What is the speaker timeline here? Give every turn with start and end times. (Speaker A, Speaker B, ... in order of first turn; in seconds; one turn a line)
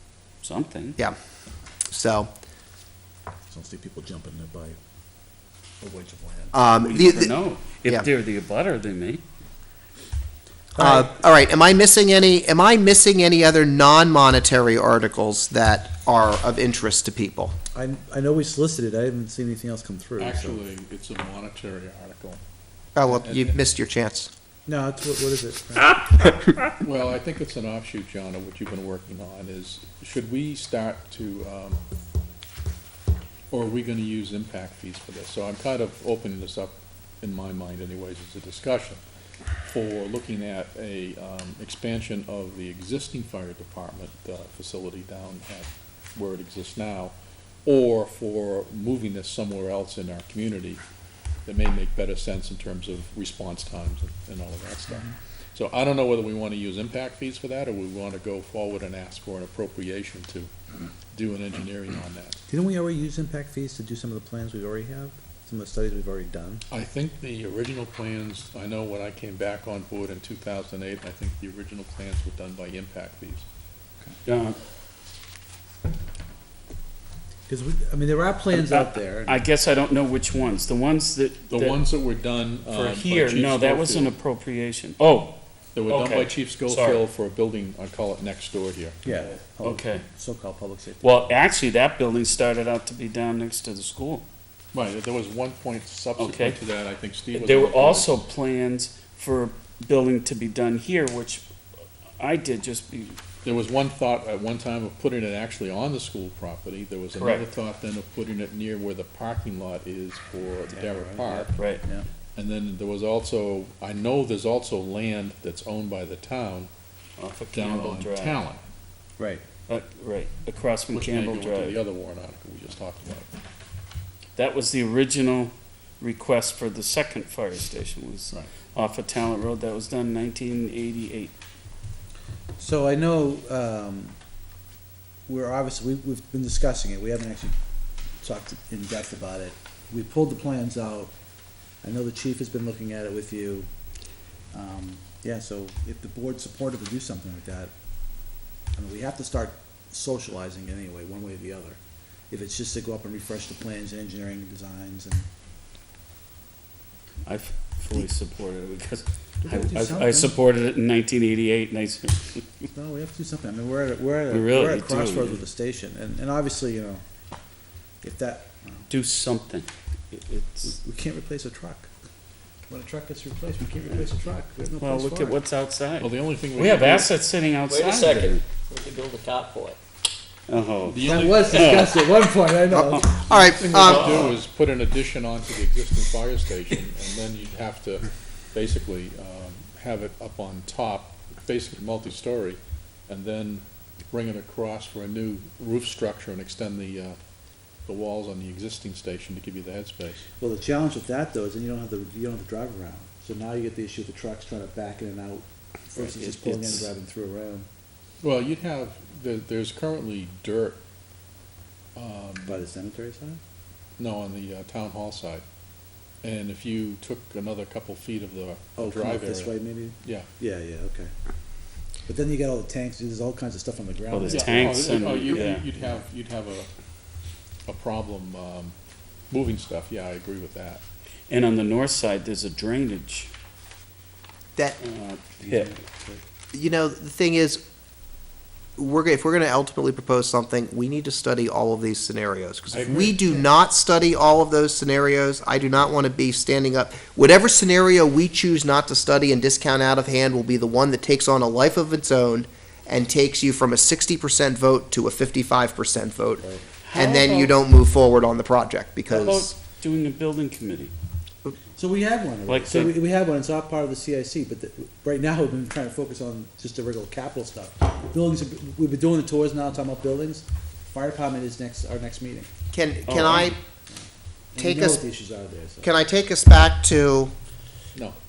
Speaker A: 0.4-1.0
Speaker B: 1.9-2.3
Speaker C: 3.5-4.8
Speaker C: 5.8-6.6
Speaker B: 6.5-7.3
Speaker A: 6.8-9.2
Speaker B: 10.8-17.6
Speaker C: 10.8-11.2
Speaker C: 17.8-20.6
Speaker D: 20.2-22.4
Speaker B: 22.9-24.3
Speaker D: 23.1-23.6
Speaker C: 24.7-26.4
Speaker D: 26.8-31.8
Speaker D: 33.5-39.0
Speaker D: 39.7-50.8
Speaker D: 51.5-60.5
Speaker D: 61.1-62.4
Speaker C: 62.5-66.6
Speaker D: 66.7-73.5
Speaker A: 74.3-74.6
Speaker C: 77.5-79.5
Speaker A: 78.5-81.8
Speaker D: 81.5-84.1
Speaker A: 82.7-85.4
Speaker D: 85.7-89.0
Speaker A: 85.9-87.0
Speaker C: 89.0-91.3
Speaker A: 89.6-90.0
Speaker A: 91.0-94.2
Speaker D: 94.7-98.2
Speaker A: 96.2-96.6
Speaker A: 97.3-101.5
Speaker A: 102.2-103.2
Speaker D: 103.4-111.6
Speaker A: 107.2-107.5
Speaker C: 110.7-112.1
Speaker A: 111.6-111.8
Speaker D: 112.4-116.7
Speaker A: 117.2-118.4
Speaker D: 117.5-118.6
Speaker C: 119.2-119.4
Speaker A: 119.7-121.8
Speaker D: 120.9-123.3
Speaker A: 124.4-131.3
Speaker C: 132.6-134.2
Speaker C: 135.3-137.6
Speaker C: 138.2-141.1
Speaker C: 141.8-143.7
Speaker C: 144.5-147.7
Speaker C: 148.8-151.8
Speaker C: 152.3-155.3
Speaker A: 157.3-162.4
Speaker C: 159.4-160.4
Speaker C: 162.7-167.0
Speaker A: 164.3-165.4
Speaker C: 168.0-168.9
Speaker A: 168.9-170.7
Speaker C: 170.7-171.9
Speaker C: 172.7-175.4
Speaker A: 174.8-178.4
Speaker D: 176.0-177.1
Speaker E: 177.7-179.8
Speaker A: 180.5-182.1
Speaker D: 180.9-181.8
Speaker E: 181.0-181.9
Speaker C: 181.0-183.3
Speaker B: 182.7-184.2
Speaker D: 183.3-197.2
Speaker D: 197.9-200.2
Speaker C: 200.4-207.7
Speaker A: 205.9-206.9
Speaker D: 208.2-210.8
Speaker D: 212.0-212.7
Speaker C: 212.4-213.4
Speaker D: 214.0-215.4
Speaker D: 216.2-220.3
Speaker C: 218.8-221.1
Speaker C: 222.1-226.0
Speaker A: 224.1-225.7
Speaker D: 224.3-226.7
Speaker D: 227.7-228.7
Speaker D: 229.3-230.8
Speaker A: 231.3-233.3
Speaker A: 234.8-235.7
Speaker C: 235.4-236.2
Speaker B: 236.5-237.6
Speaker B: 238.8-259.5
Speaker A: 242.7-243.1
Speaker C: 242.8-243.3
Speaker A: 256.8-257.6
Speaker A: 259.1-260.9
Speaker C: 261.8-272.5
Speaker A: 262.5-262.9
Speaker B: 272.7-273.6
Speaker A: 273.1-273.5
Speaker C: 273.9-275.9
Speaker B: 274.6-275.0
Speaker B: 275.8-277.3